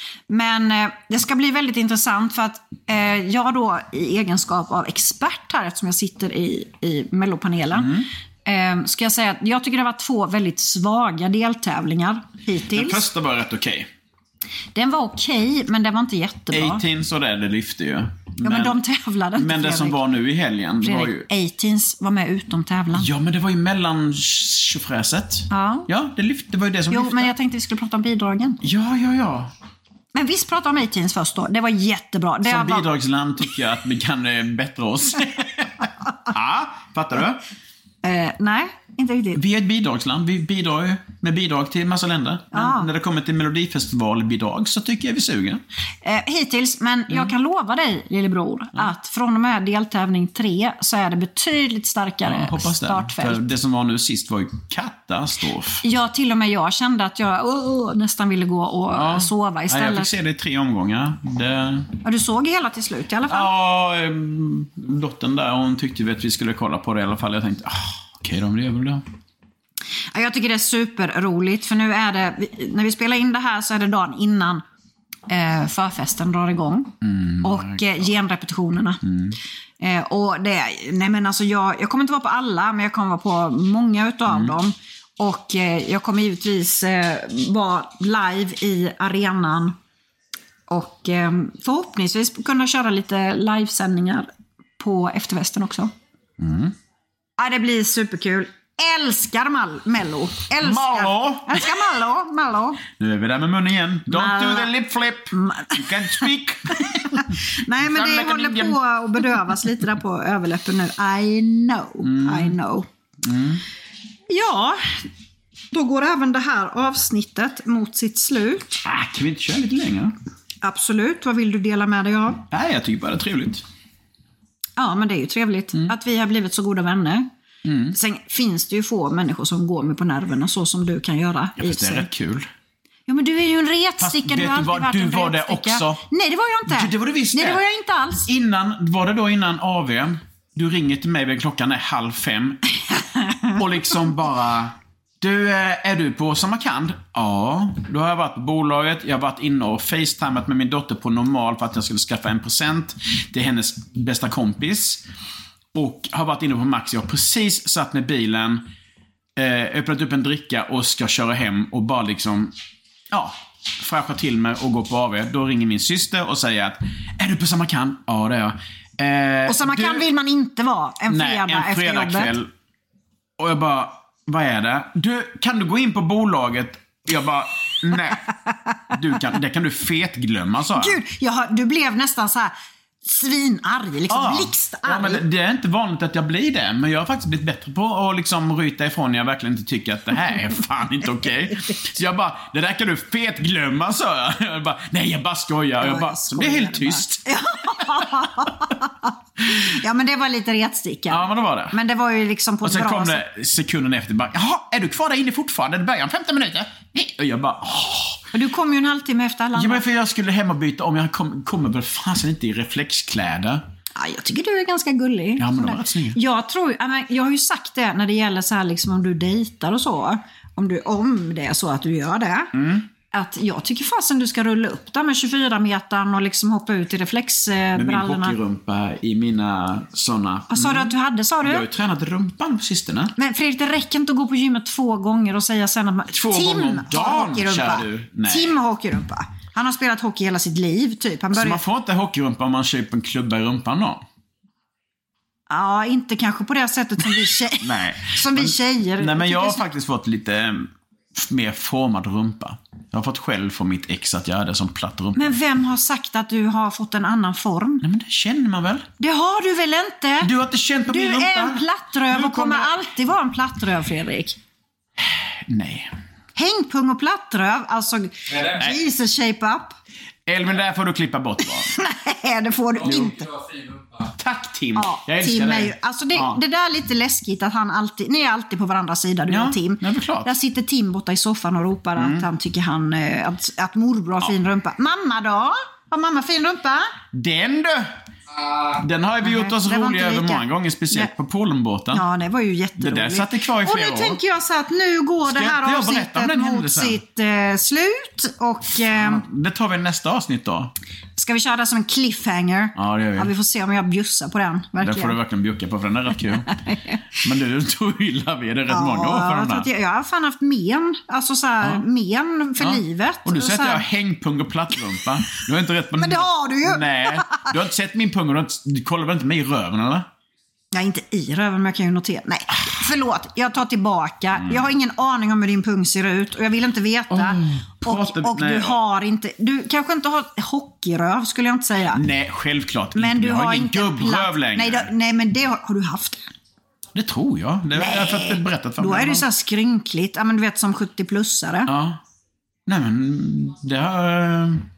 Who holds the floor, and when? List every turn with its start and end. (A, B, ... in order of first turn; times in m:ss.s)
0:00.3-0:13.0 A
0:07.7-0:08.1 B
0:12.7-0:13.9 B
0:14.7-0:16.8 A
0:16.5-0:18.8 B
0:18.4-0:20.0 A
0:19.4-0:21.3 B
0:20.8-0:23.1 A
0:22.9-0:27.3 B
0:25.5-0:25.9 A
0:26.9-0:28.6 A
0:28.6-0:29.5 B
0:30.1-0:32.9 A
0:32.4-0:37.4 B
0:38.0-0:39.4 A
0:39.4-0:45.6 B
0:42.5-0:42.9 A
0:46.0-0:53.5 A
0:52.2-0:55.8 B
0:55.8-1:00.1 A
0:58.9-1:01.9 B
1:02.0-1:03.5 A
1:03.3-1:09.0 B
1:10.1-1:14.6 A
1:15.3-1:19.0 A
1:17.0-1:18.0 B
1:19.0-1:19.4 B
1:19.8-1:29.8 A
1:24.3-1:24.6 B
1:30.7-1:34.3 A
1:34.8-1:35.9 A
1:36.4-1:36.8 B
1:37.4-1:42.8 A
1:40.6-1:41.7 B
1:43.0-1:49.5 B
1:44.1-1:44.7 A
1:45.3-1:52.9 A
1:52.0-1:52.6 B
1:53.2-1:53.6 B
1:54.3-1:55.1 A
1:55.7-1:58.8 A
1:58.8-2:00.2 B
2:00.6-2:02.4 A
2:02.5-2:03.6 B
2:04.8-2:07.3 A
2:07.6-2:08.0 B
2:07.9-2:12.1 A
2:11.6-2:12.5 B
2:13.1-2:18.3 A
2:14.0-2:16.0 B
2:16.7-2:17.6 B
2:18.3-2:22.7 B
2:23.5-2:35.0 B
2:35.7-2:38.6 B
2:39.4-2:42.5 B
2:43.1-2:50.1 B
2:49.5-2:52.3 A
2:51.1-2:52.5 B
2:53.4-2:58.3 B
2:58.9-3:01.0 B
3:00.8-3:05.2 A
3:04.1-3:18.6 B
3:15.8-3:23.2 A
3:21.1-3:21.8 B
3:22.6-3:28.3 B
3:28.3-3:29.8 A
3:29.5-3:33.6 B
3:34.0-3:42.5 A
3:35.4-3:36.2 B
3:42.5-3:42.9 B
3:43.1-3:48.4 A
3:47.8-3:53.1 B
3:50.5-3:51.6 A
3:53.2-4:01.6 A
3:56.1-3:58.6 B
4:01.3-4:04.0 B
4:05.5-4:09.7 A
4:07.6-4:15.4 B
4:15.2-4:17.9 A
4:17.8-4:18.9 B
4:19.0-4:20.3 A
4:20.2-4:22.8 B
4:20.9-4:24.4 A
4:25.0-4:26.0 B
4:26.4-4:29.8 A
4:28.5-4:28.8 B
4:30.3-4:31.7 B
4:31.6-4:33.3 A
4:32.8-4:36.4 B
4:34.8-4:46.9 A
4:39.3-4:40.3 B
4:42.0-4:42.3 B
4:47.1-4:48.0 B
4:48.5-4:52.0 B
4:49.2-4:51.1 A
4:51.9-4:59.2 A
4:52.8-4:54.2 B
4:55.2-4:57.0 B
4:58.9-5:00.7 B
5:01.2-5:05.2 A
5:02.8-5:03.3 B
5:04.8-5:06.5 B
5:06.4-5:07.1 A
5:07.2-5:09.7 B
5:08.7-5:13.8 A
5:12.6-5:20.1 B
5:16.0-5:17.5 A
5:20.7-5:32.0 A
5:27.1-5:28.8 B
5:31.9-5:34.9 B
5:33.0-5:36.3 A
5:36.9-5:39.3 B
5:37.8-5:41.7 A
5:41.7-5:42.0 B
5:42.7-5:44.7 B